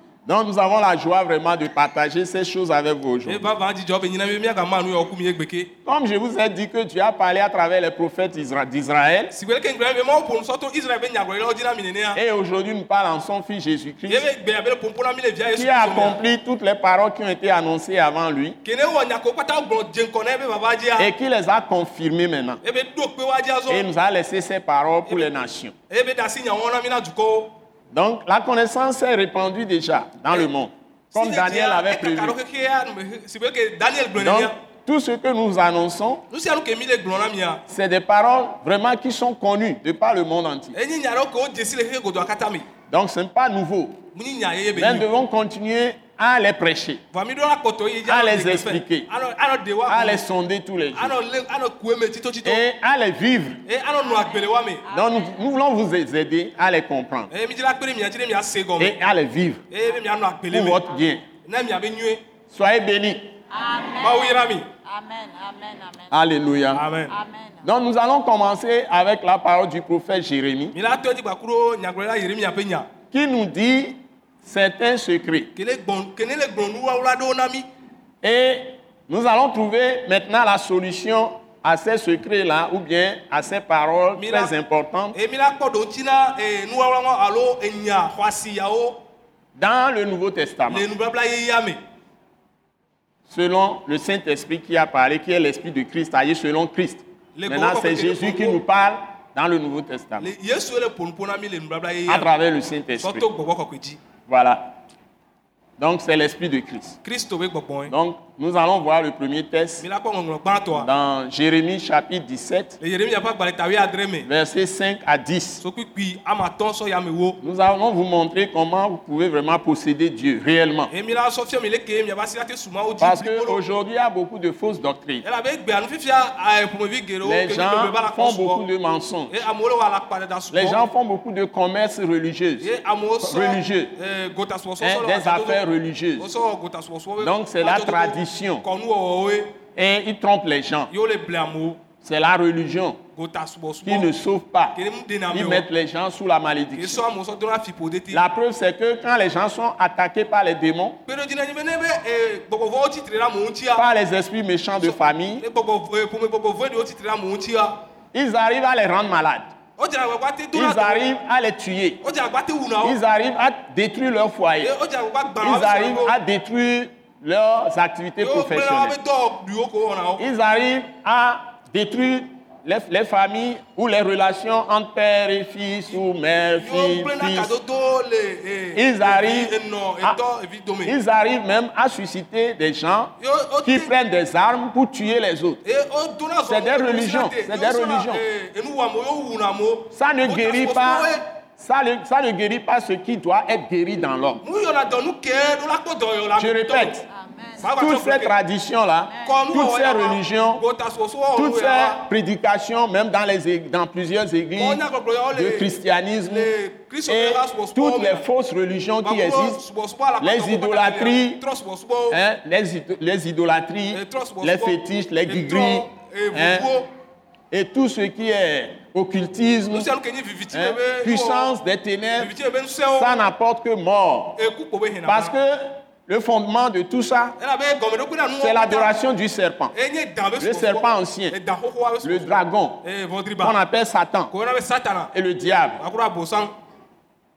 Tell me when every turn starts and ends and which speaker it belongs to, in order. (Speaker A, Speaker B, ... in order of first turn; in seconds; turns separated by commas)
Speaker A: 0.2-3.5, Speaker B: 3.2-5.7, Speaker A: 5.8-9.3, Speaker B: 9.3-12.2, Speaker A: 12.1-14.3, Speaker B: 14.1-16.2, Speaker A: 15.5-18.6, Speaker B: 18.6-21.1, Speaker A: 21.0-22.6, Speaker B: 22.6-23.9, Speaker A: 23.7-25.7, Speaker B: 25.9-27.5, Speaker A: 27.9-32.4, Speaker B: 31.1-34.5, Speaker A: 34.2-36.2, Speaker B: 36.3-37.6, Speaker A: 37.7-40.8, Speaker B: 40.7-42.6, Speaker A: 42.9-44.0, Speaker B: 44.1-45.1, Speaker A: 44.7-47.0, Speaker B: 47.1-50.2, Speaker A: 48.0-49.1, Speaker A: 49.9-51.2, Speaker B: 50.9-52.6, Speaker A: 52.4-53.6, Speaker B: 53.6-54.8, Speaker C: 54.0-55.4, Speaker A: 54.9-57.3, Speaker B: 57.3-59.0, Speaker A: 58.8-59.6, Speaker B: 59.7-60.8, Speaker A: 60.5-61.2, Speaker B: 61.4-62.2, Speaker A: 62.5-63.3, Speaker C: 63.5-66.1, Speaker B: 64.0-64.7, Speaker A: 66.1-66.8, Speaker B: 66.7-67.1, Speaker C: 67.1-67.7, Speaker A: 67.6-70.7, Speaker B: 70.7-72.9, Speaker A: 73.1-75.5, Speaker B: 75.5-77.7, Speaker A: 78.2-85.2, Speaker B: 84.2-84.5, Speaker B: 85.1-89.0, Speaker A: 89.5-90.8, Speaker B: 90.7-91.8, Speaker A: 93.3-100.3, Speaker B: 97.3-98.6, Speaker B: 100.2-102.3, Speaker A: 102.1-103.2, Speaker B: 103.0-104.0, Speaker A: 104.3-104.8, Speaker A: 105.8-107.0, Speaker B: 107.0-107.9, Speaker A: 107.9-109.8, Speaker B: 109.8-110.9, Speaker A: 110.7-112.8, Speaker B: 112.8-114.3, Speaker A: 114.2-115.6, Speaker B: 115.6-117.4, Speaker A: 117.4-120.9, Speaker B: 120.9-123.6, Speaker A: 123.0-125.2, Speaker B: 125.2-128.6, Speaker A: 127.2-129.5, Speaker B: 129.3-130.8, Speaker A: 130.5-133.9, Speaker B: 132.6-135.6, Speaker A: 134.8-136.3, Speaker B: 136.2-139.6, Speaker A: 137.2-138.6, Speaker A: 139.8-140.9, Speaker B: 140.9-141.8, Speaker A: 142.0-143.0, Speaker B: 143.2-144.1, Speaker A: 143.8-144.8, Speaker B: 144.7-145.6, Speaker A: 145.3-147.0, Speaker B: 146.8-148.2, Speaker A: 148.1-151.0, Speaker B: 151.1-153.8, Speaker A: 153.7-155.4, Speaker B: 154.8-157.8, Speaker A: 158.1-159.5, Speaker B: 159.8-161.1, Speaker A: 160.5-162.0, Speaker B: 162.0-163.0, Speaker A: 162.8-164.7, Speaker B: 164.6-166.2, Speaker A: 165.4-168.9, Speaker B: 168.2-170.2, Speaker A: 170.2-177.6, Speaker B: 176.6-180.9, Speaker A: 178.7-180.2, Speaker A: 180.8-185.6, Speaker B: 183.2-183.9, Speaker B: 185.6-191.2, Speaker A: 186.5-188.2, Speaker A: 189.9-194.4, Speaker B: 194.4-197.0, Speaker A: 196.3-197.0, Speaker C: 197.1-197.7, Speaker B: 197.6-198.3, Speaker A: 197.7-200.6, Speaker C: 199.1-199.3, Speaker B: 199.2-202.0, Speaker A: 201.3-204.8, Speaker B: 204.6-205.7, Speaker A: 205.3-206.5, Speaker B: 206.2-208.2, Speaker A: 207.1-209.6, Speaker B: 209.0-212.2, Speaker A: 210.2-211.4, Speaker A: 212.1-216.7, Speaker B: 213.9-216.9, Speaker A: 217.5-219.9, Speaker B: 219.7-221.5, Speaker A: 220.5-222.3, Speaker B: 222.2-223.1, Speaker A: 222.9-224.4, Speaker B: 224.4-225.3, Speaker A: 225.1-227.4, Speaker B: 227.4-228.9, Speaker A: 228.4-229.7, Speaker B: 229.7-233.6, Speaker A: 230.4-231.4, Speaker A: 232.0-232.8, Speaker A: 233.4-234.3, Speaker B: 234.3-235.1, Speaker A: 235.1-235.8, Speaker B: 235.8-236.5